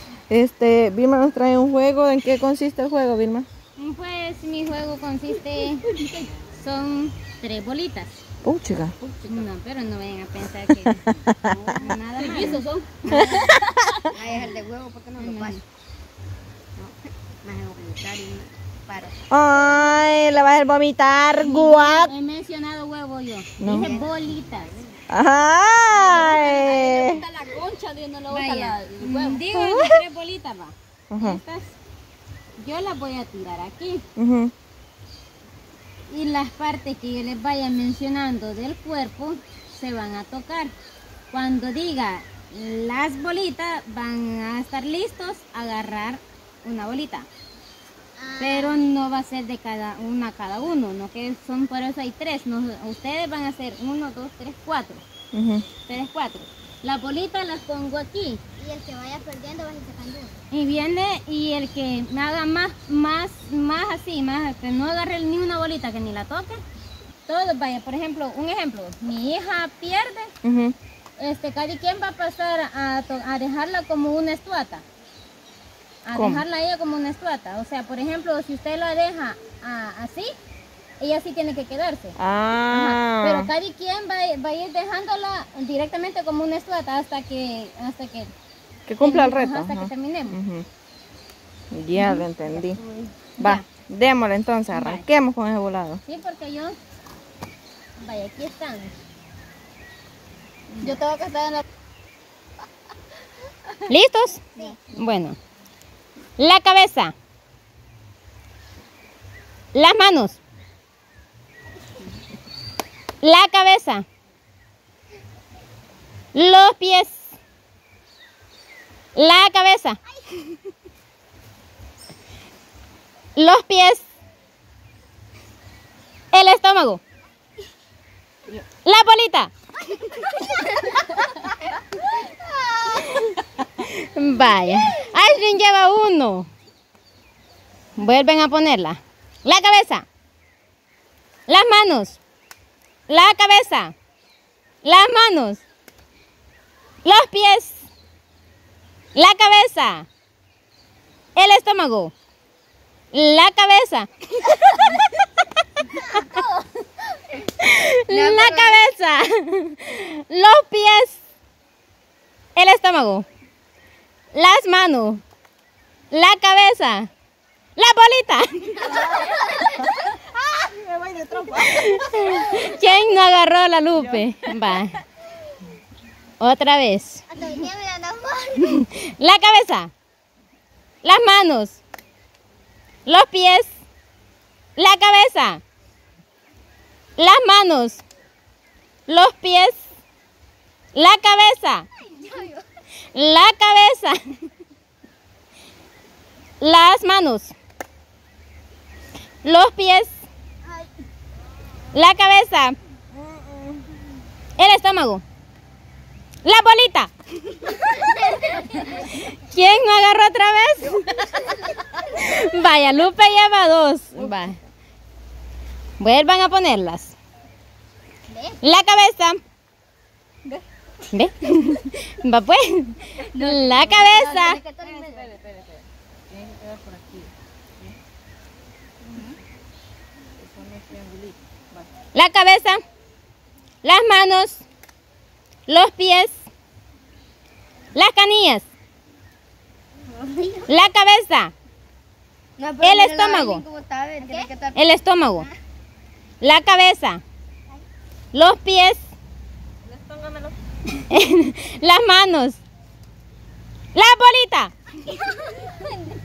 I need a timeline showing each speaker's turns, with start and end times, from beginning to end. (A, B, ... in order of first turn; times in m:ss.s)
0:00.3-0:03.5 A
0:03.8-0:05.8 B
0:05.9-0:06.3 C
0:06.6-0:08.2 B
0:08.4-0:09.0 A
0:09.0-0:09.5 C
0:09.2-0:11.0 B
0:10.8-0:11.8 A
0:11.8-0:13.4 B
0:12.2-0:14.1 C
0:13.1-0:14.0 A
0:14.1-0:15.6 D
0:15.2-0:15.6 B
0:17.4-0:19.2 D
0:19.3-0:22.1 A
0:21.4-0:24.7 B
0:23.6-0:24.0 A
0:23.6-0:24.1 D
0:25.1-0:27.2 A
0:25.9-0:29.4 C
0:28.3-0:31.7 B
0:29.5-0:30.0 A
0:31.1-0:31.4 A
0:32.6-0:34.0 B
0:34.2-0:34.5 A
0:36.1-0:40.7 B
0:41.3-0:47.3 B
0:48.2-0:48.8 D
0:48.4-0:55.0 B
0:55.3-0:55.6 A
0:55.9-0:58.4 B
0:58.6-1:00.4 D
1:00.5-1:06.6 B
1:07.3-1:10.3 B
1:10.4-1:10.7 A
1:11.2-1:14.8 B
1:16.0-1:20.3 B
1:16.1-1:16.4 A
1:21.0-1:22.1 B
1:22.2-1:23.5 A
1:22.7-1:28.3 B
1:28.9-1:30.6 A
1:29.0-1:30.4 B
1:31.7-1:32.8 A
1:32.8-1:33.1 C
1:33.4-1:33.6 B
1:33.4-1:36.0 A
1:34.7-1:35.0 B
1:36.0-1:36.8 B
1:38.0-1:38.9 B
1:40.8-1:41.6 C
1:43.8-1:45.4 B
1:46.4-1:47.1 B
1:49.7-1:50.4 B
1:53.2-1:54.0 B
1:56.3-1:57.2 B
1:59.1-2:00.0 B
2:03.4-2:04.0 B
2:06.3-2:07.0 B
2:08.8-2:09.5 B
2:12.9-2:16.5 B
2:18.0-2:20.0 B
2:21.5-2:22.2 B
2:23.1-2:23.9 B
2:24.8-2:25.6 B
2:27.0-2:27.8 B
2:29.1-2:30.1 B
2:31.4-2:32.1 B
2:33.1-2:35.0 B
2:37.6-2:41.2 B
2:38.1-2:38.8 D
2:42.6-2:43.2 B
2:44.3-2:45.2 B
2:46.1-2:47.1 B
2:47.8-2:48.9 B
2:48.8-2:52.6 A
2:49.1-2:49.9 D
2:51.7-2:55.0 B
2:53.9-2:54.8 A
2:56.4-2:57.2 B
2:57.3-2:58.8 D
2:58.6-2:59.9 B
3:01.0-3:01.8 B
3:03.0-3:03.7 B
3:04.8-3:05.6 B
3:07.2-3:08.0 B
3:09.1-3:09.8 B
3:10.9-3:11.9 B
3:12.1-3:12.6 D
3:13.1-3:14.5 B
3:16.6-3:17.5 B
3:19.4-3:20.2 B
3:21.9-3:22.8 B
3:23.1-3:23.9 A
3:24.6-3:25.2 B
3:26.4-3:34.6 B
3:34.1-3:34.5 A
3:36.0-3:37.1 B
3:38.3-3:38.6 D
3:38.6-3:39.4 B
3:41.1-3:44.6 B
3:43.2-3:44.4 C
3:44.1-3:45.3 D
3:44.8-3:47.9 A
3:50.4-3:51.9 A
3:52.1-3:52.8 B
3:53.8-3:54.6 B
3:55.7-3:56.4 B
3:57.9-3:58.6 B
4:00.1-4:00.7 D
4:00.6-4:01.5 B
4:02.6-4:05.5 D
4:02.8-4:03.6 B
4:04.7-4:05.5 B
4:06.4-4:07.2 B
4:08.3-4:09.0 B
4:09.8-4:10.6 A
4:11.1-4:12.6 B
4:13.9-4:14.7 B
4:15.1-4:15.7 D